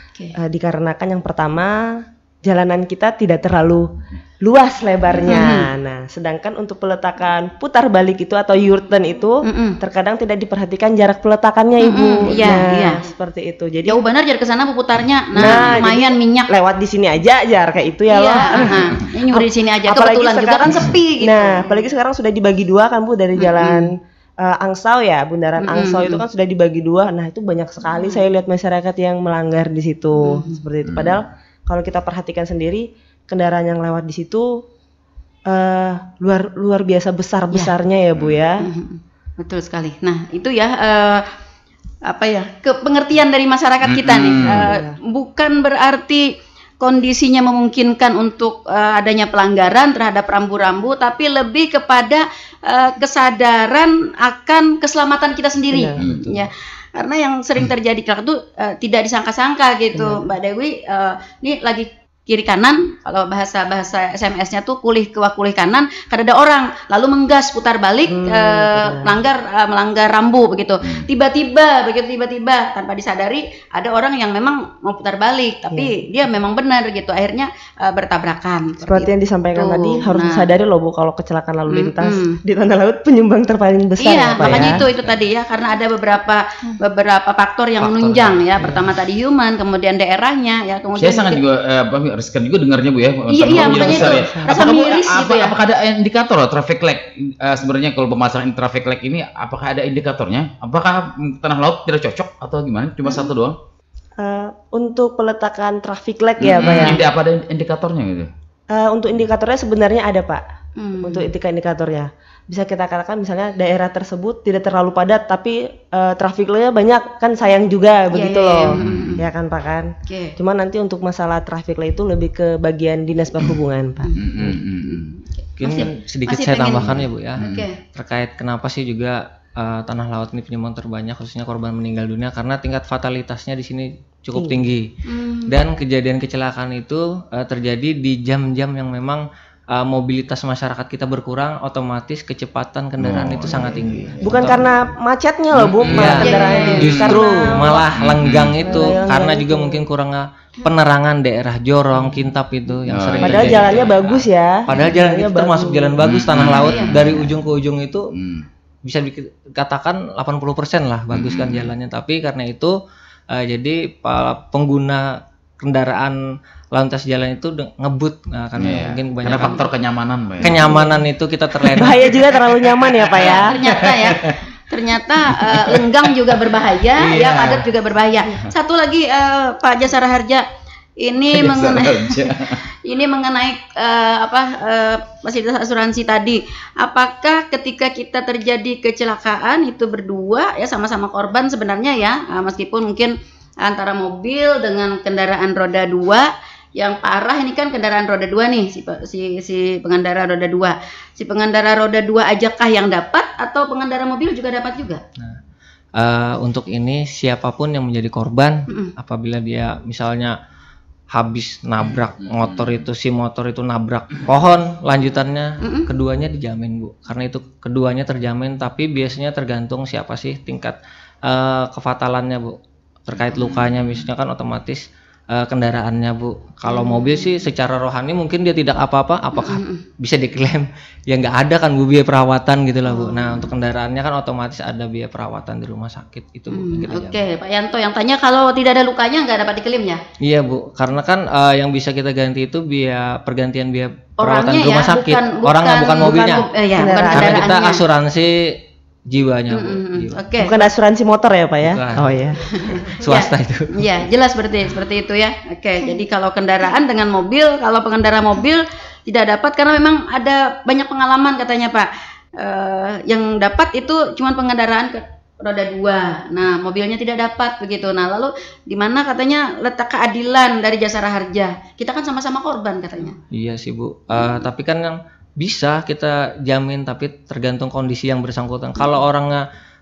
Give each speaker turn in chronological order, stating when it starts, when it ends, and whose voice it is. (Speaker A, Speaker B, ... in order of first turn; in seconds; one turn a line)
Speaker A: 0.4-14.0
Speaker B: 5.3-5.7
Speaker B: 9.4-9.8
Speaker B: 11.8-13.0
Speaker B: 13.8-16.5
Speaker A: 15.3-34.6
Speaker B: 18.1-21.8
Speaker B: 23.4-23.9
Speaker B: 25.6-26.2
Speaker B: 27.9-28.2
Speaker B: 30.2-30.6
Speaker C: 30.8-31.2
Speaker A: 35.5-38.7
Speaker B: 38.6-41.3
Speaker B: 42.1-80.5
Speaker C: 43.8-44.7
Speaker A: 44.5-45.0
Speaker A: 55.7-56.1
Speaker C: 56.0-56.5
Speaker A: 59.9-60.2
Speaker A: 68.1-69.2
Speaker C: 70.8-71.1
Speaker A: 75.7-76.0
Speaker A: 78.8-84.8
Speaker B: 81.7-82.4
Speaker B: 84.0-91.4
Speaker C: 84.3-85.2
Speaker C: 87.8-88.8
Speaker C: 90.9-103.6
Speaker B: 93.3-95.5
Speaker A: 93.5-94.7
Speaker A: 104.2-107.0
Speaker C: 106.4-108.3
Speaker A: 108.7-110.4
Speaker B: 110.8-111.3
Speaker A: 111.0-124.1
Speaker B: 118.1-119.2
Speaker C: 118.7-119.2
Speaker B: 120.0-120.3
Speaker B: 124.0-125.0
Speaker C: 124.1-125.1
Speaker D: 125.6-134.9
Speaker B: 125.6-127.8
Speaker C: 127.4-127.7
Speaker A: 134.3-134.6
Speaker B: 135.1-135.5
Speaker D: 135.5-144.7
Speaker C: 143.0-144.7
Speaker A: 144.2-147.9
Speaker C: 145.5-147.2
Speaker D: 145.9-158.1
Speaker B: 146.2-147.2
Speaker C: 147.9-148.8
Speaker A: 148.6-149.8
Speaker C: 152.9-154.2
Speaker A: 153.2-156.0
Speaker C: 156.0-157.4
Speaker B: 156.4-157.0
Speaker C: 158.1-158.4
Speaker D: 158.8-162.8
Speaker C: 161.1-161.7
Speaker D: 163.3-166.2
Speaker D: 166.7-169.6
Speaker C: 168.6-170.8
Speaker B: 169.4-169.6
Speaker D: 170.4-172.0
Speaker A: 170.5-170.9
Speaker C: 171.6-174.4
Speaker A: 171.7-173.5
Speaker B: 173.3-180.4
Speaker C: 175.3-177.7
Speaker B: 181.0-205.0
Speaker C: 181.3-182.6
Speaker D: 206.0-210.3
Speaker D: 211.1-237.2
Speaker C: 211.9-212.8
Speaker B: 215.6-215.9
Speaker C: 223.2-224.1
Speaker B: 226.7-227.4
Speaker B: 229.4-229.8
Speaker B: 232.9-233.5
Speaker B: 236.5-240.0
Speaker D: 240.2-246.5
Speaker B: 244.2-247.8
Speaker A: 246.0-247.5
Speaker D: 247.1-250.2
Speaker B: 249.5-250.6
Speaker A: 250.4-252.4
Speaker D: 251.6-252.2
Speaker B: 252.5-273.1
Speaker D: 252.8-253.7
Speaker D: 273.3-279.4
Speaker B: 274.1-274.4